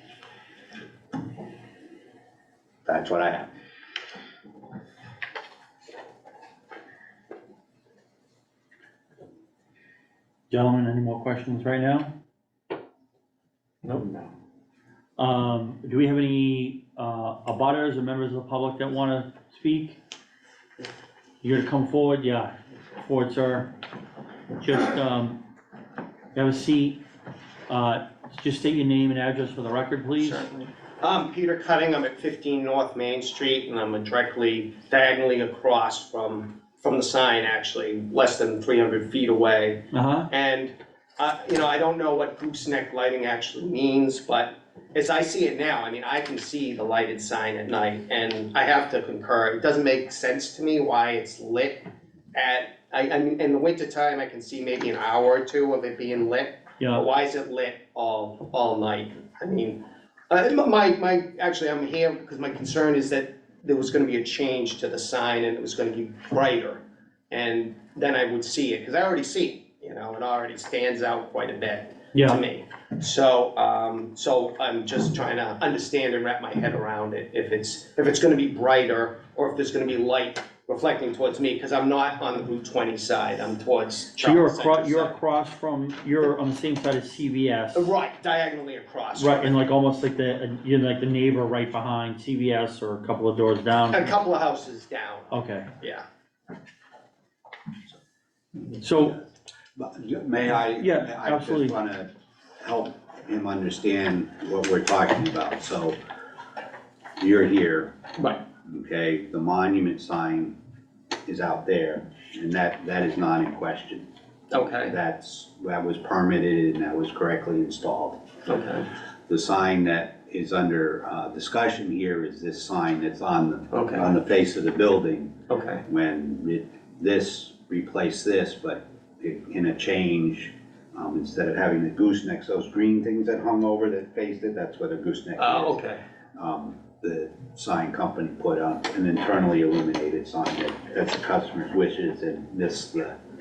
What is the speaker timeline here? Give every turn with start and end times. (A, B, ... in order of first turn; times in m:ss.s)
0:02.9-0:03.5 A
0:10.5-0:12.1 B
0:15.2-0:20.0 B
0:21.4-0:23.7 B
0:24.6-0:25.4 B
0:26.3-0:27.0 B
0:27.7-0:30.4 B
0:30.2-1:25.2 C
0:39.9-0:40.3 B
1:12.1-1:12.4 B
1:24.2-1:27.9 B
1:27.8-1:29.7 C
1:29.2-1:34.1 B
1:33.9-1:36.0 C
1:35.3-1:35.7 B
1:38.8-1:39.2 B
1:39.8-1:46.0 A
1:40.7-1:41.8 B
1:47.2-1:48.0 A
1:48.2-1:48.4 C
1:48.6-1:50.6 A
1:51.3-1:54.1 A
1:54.5-1:55.0 C
1:54.8-1:58.2 A
1:58.5-1:58.9 C
1:59.3-2:15.8 A
2:03.7-2:04.1 C
2:05.5-2:05.8 C
2:15.4-2:16.0 C
2:16.4-2:23.2 A